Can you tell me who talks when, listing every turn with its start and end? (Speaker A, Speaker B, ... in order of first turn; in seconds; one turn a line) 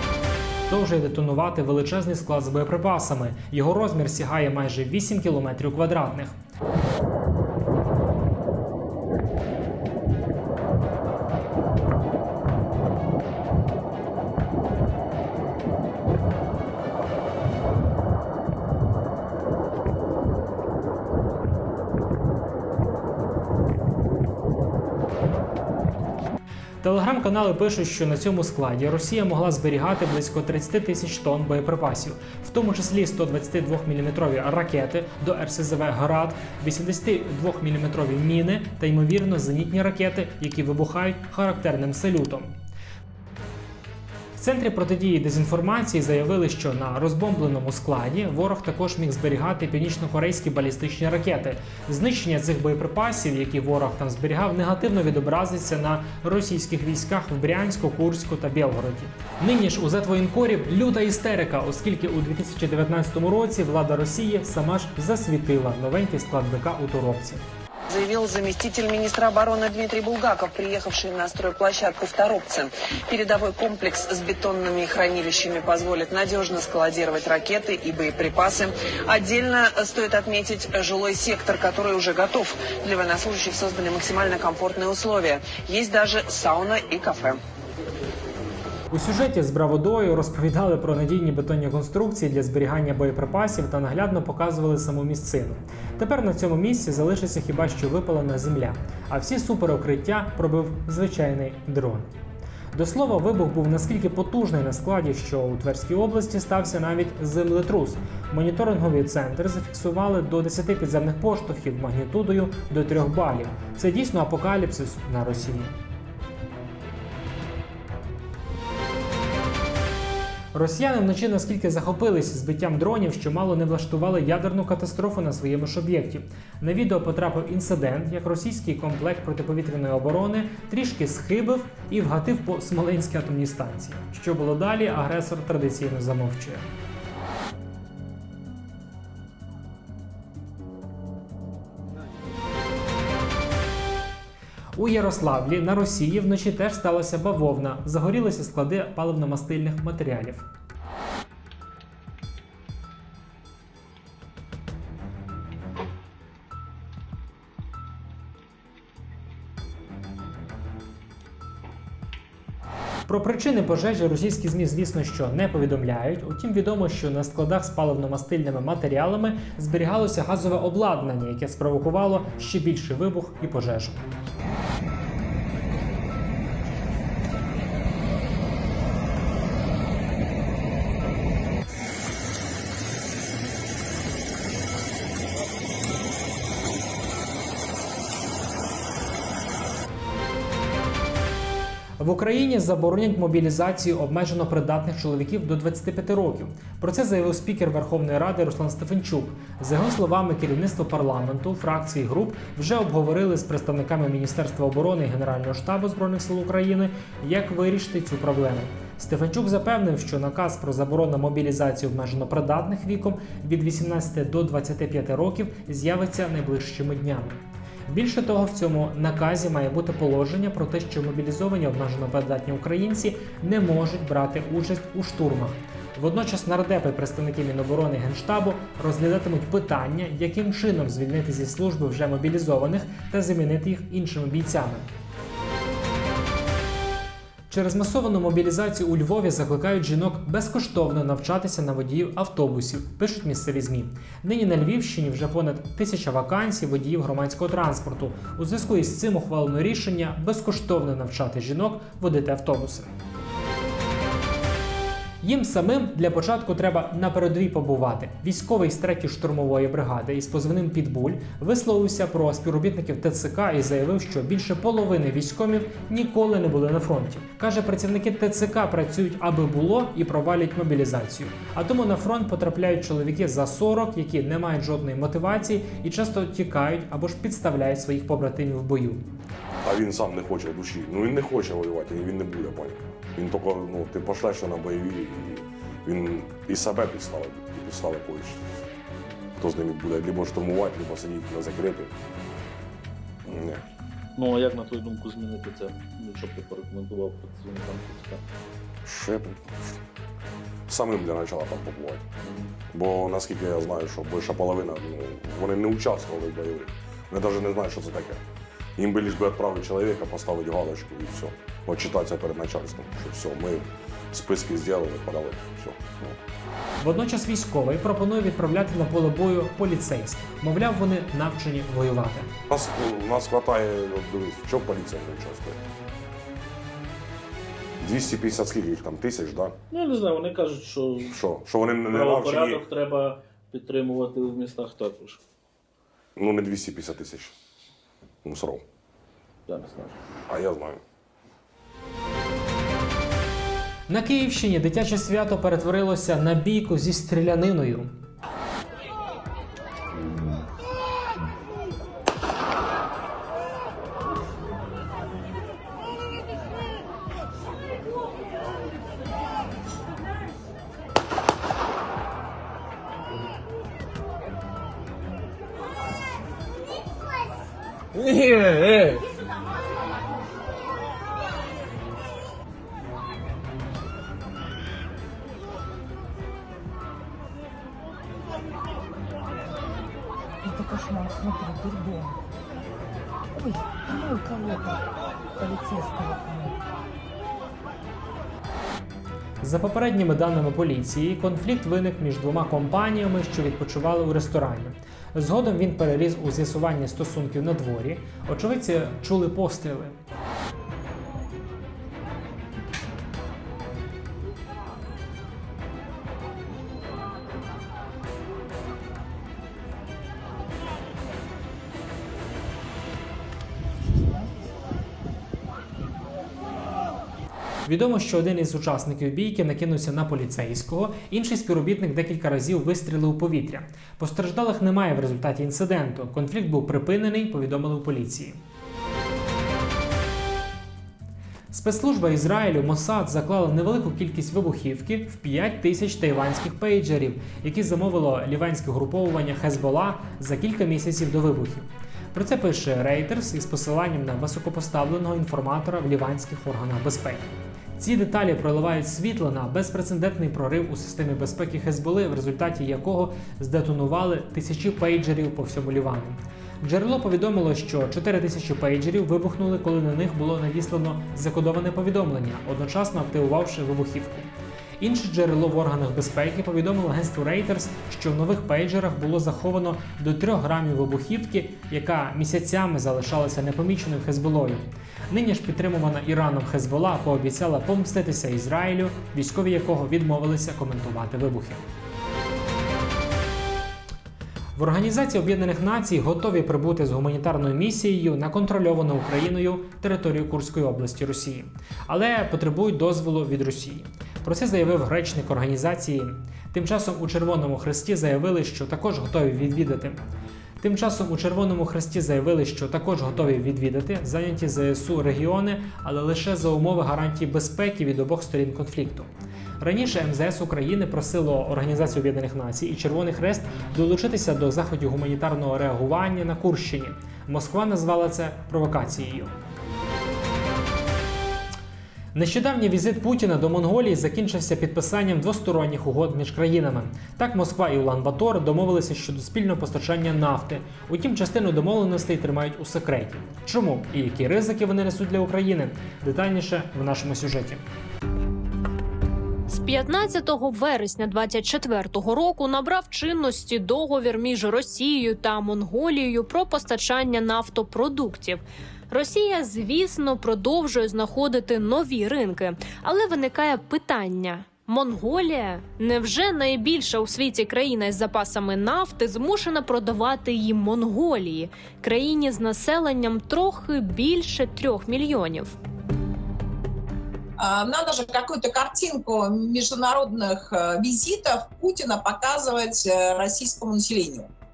Speaker A: 0.7-6.3
Speaker A: 26.8-42.5
Speaker A: 44.4-67.5
Speaker B: 67.9-87.4
Speaker A: 88.9-102.1
Speaker A: 102.7-115.7
Speaker A: 120.5-136.7
Speaker A: 144.8-150.5
Speaker A: 163.1-174.0
Speaker A: 192.0-234.9
Speaker A: 237.5-252.9
Speaker A: 255.2-279.1
Speaker C: 279.6-288.4
Speaker C: 289.4-291.9
Speaker C: 293.2-293.6
Speaker D: 294.2-298.2
Speaker C: 298.9-299.8
Speaker C: 300.7-302.1
Speaker C: 302.7-308.2
Speaker C: 308.8-316.2
Speaker A: 316.8-322.3
Speaker C: 322.5-325.6
Speaker C: 327.8-329.6
Speaker D: 329.7-331.0
Speaker C: 331.1-332.7
Speaker D: 331.9-335.2
Speaker C: 336.2-337.3
Speaker C: 338.2-338.6
Speaker D: 339.5-339.9
Speaker C: 340.3-340.8
Speaker A: 343.9-347.9
Speaker E: 380.4-382.2
Speaker E: 383.4-384.8
Speaker E: 385.4-386.6
Speaker A: 389.4-400.0
Speaker E: 413.9-414.4
Speaker A: 417.7-428.4
Speaker A: 431.5-481.6
Speaker A: 484.6-500.0
Speaker A: 500.6-519.3
Speaker A: 522.1-537.6
Speaker F: 539.5-565.5
Speaker G: 567.4-574.3